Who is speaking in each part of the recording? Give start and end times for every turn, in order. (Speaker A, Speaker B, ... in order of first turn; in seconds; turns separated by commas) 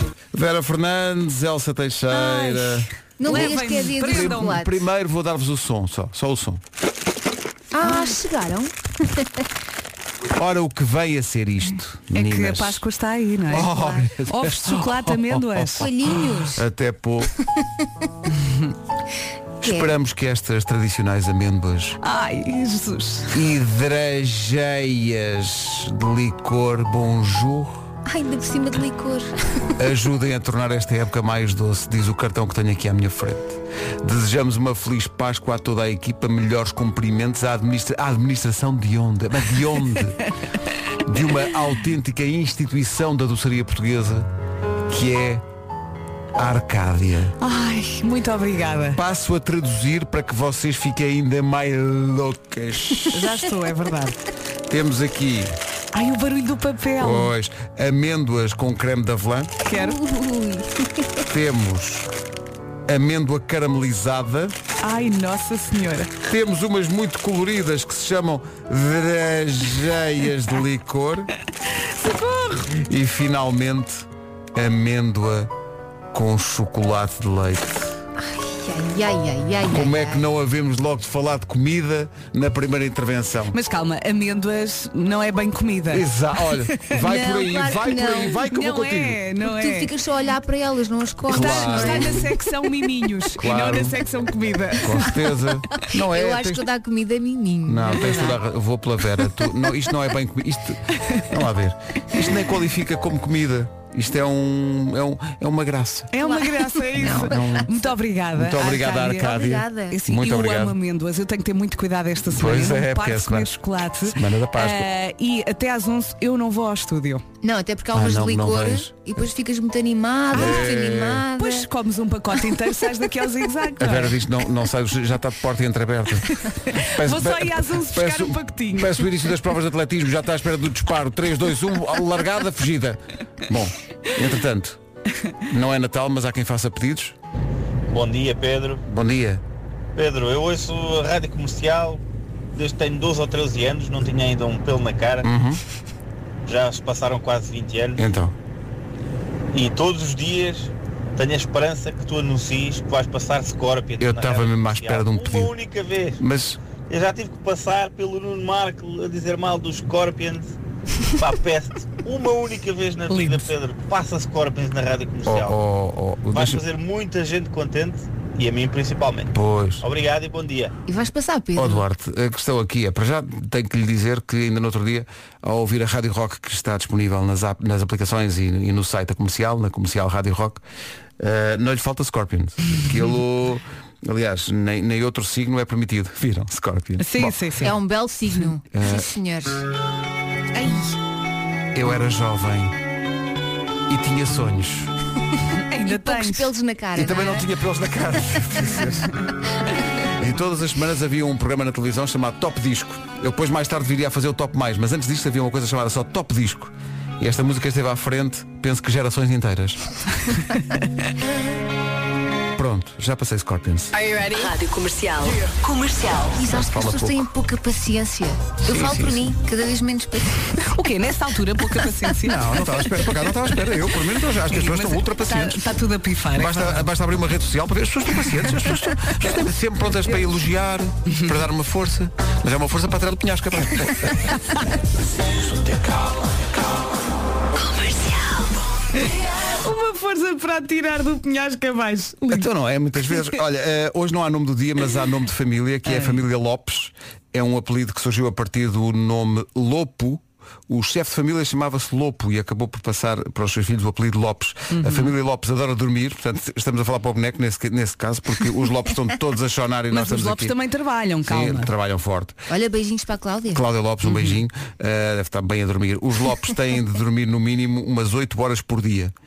Speaker A: 0.3-6.6, Speaker B: 2.1-4.6, Speaker C: 3.2-4.7, Speaker C: 7.7-9.4, Speaker B: 7.8-8.2, Speaker A: 10.3-12.8, Speaker B: 12.1-15.9, Speaker A: 13.5-17.3, Speaker C: 15.8-16.6, Speaker A: 19.6-22.0, Speaker C: 19.6-19.9, Speaker B: 22.0-23.3, Speaker A: 23.3-27.9, Speaker C: 28.1-29.3, Speaker A: 29.8-40.3, Speaker A: 41.0-44.3, Speaker A: 44.9-45.4, Speaker A: 46.3-47.3, Speaker B: 47.4-49.0, Speaker A: 49.0-53.2, Speaker B: 53.1-54.2, Speaker A: 54.7-55.5, Speaker B: 55.9-57.3, Speaker A: 57.0-59.5, Speaker B: 59.6-60.0, Speaker C: 59.7-61.0, Speaker A: 61.3-62.1, Speaker A: 62.9-64.5, Speaker B: 64.8-66.1, Speaker A: 66.2-71.3, Speaker B: 71.9-72.7, Speaker A: 72.8-75.5, Speaker A: 76.1-78.0, Speaker C: 78.2-80.2, Speaker A: 79.7-83.5, Speaker B: 83.5-86.0, Speaker A: 85.9-89.2, Speaker C: 86.9-88.4, Speaker B: 88.4-89.9, Speaker C: 89.4-92.3, Speaker A: 91.3-92.3, Speaker B: 91.3-95.1, Speaker A: 93.3-94.0, Speaker A: 94.8-96.7, Speaker C: 95.8-98.4, Speaker A: 97.7-106.1, Speaker B: 106.1-109.3, Speaker C: 106.2-107.6, Speaker A: 107.0-107.7, Speaker A: 108.3-110.8, Speaker C: 108.6-110.0, Speaker B: 109.9-117.2, Speaker A: 112.3-113.5, Speaker A: 114.0-114.8, Speaker C: 117.4-121.7, Speaker A: 117.9-119.0, Speaker B: 120.3-124.2, Speaker A: 120.3-121.2, Speaker A: 123.8-134.8, Speaker B: 126.3-129.1, Speaker A: 135.5-137.1, Speaker D: 137.9-138.8, Speaker A: 138.9-139.4, Speaker D: 139.9-142.0, Speaker D: 142.5-145.2, Speaker A: 145.2-145.6, Speaker D: 146.4-148.0, Speaker A: 148.0-148.3, Speaker D: 149.5-156.2, Speaker A: 154.0-155.5, Speaker A: 156.2-156.6, Speaker D: 156.9-160.5, Speaker D: 161.1-165.6, Speaker B: 163.1-163.5, Speaker A: 165.2-166.6, Speaker D: 166.3-170.7, Speaker A: 169.3-169.8, Speaker C: 170.9-171.8, Speaker A: 171.6-180.6, Speaker A: 181.2-187.4, Speaker B: 187.0-187.7, Speaker C: 187.6-189.6, Speaker A: 188.7-189.1, Speaker B: 190.5-190.9, Speaker A: 191.7-192.7, Speaker A: 193.9-194.9, Speaker B: 195.7-196.5, Speaker C: 195.8-197.5, Speaker A: 196.9-199.1, Speaker A: 200.2-209.8, Speaker A: 212.5-213.9, Speaker E: 213.9-216.5, Speaker C: 216.3-220.5, Speaker A: 216.5-217.2, Speaker A: 218.6-219.3, Speaker B: 220.6-222.7, Speaker A: 222.2-225.6, Speaker B: 224.4-226.9, Speaker A: 226.3-234.3, Speaker B: 231.1-231.4, Speaker E: 237.5-238.6, Speaker B: 239.0-242.5, Speaker A: 242.3-260.5, Speaker B: 245.8-246.2, Speaker B: 254.7-255.1, Speaker B: 259.9-261.7, Speaker A: 261.3-262.4, Speaker C: 262.5-263.6, Speaker A: 263.5-269.1, Speaker B: 264.0-264.4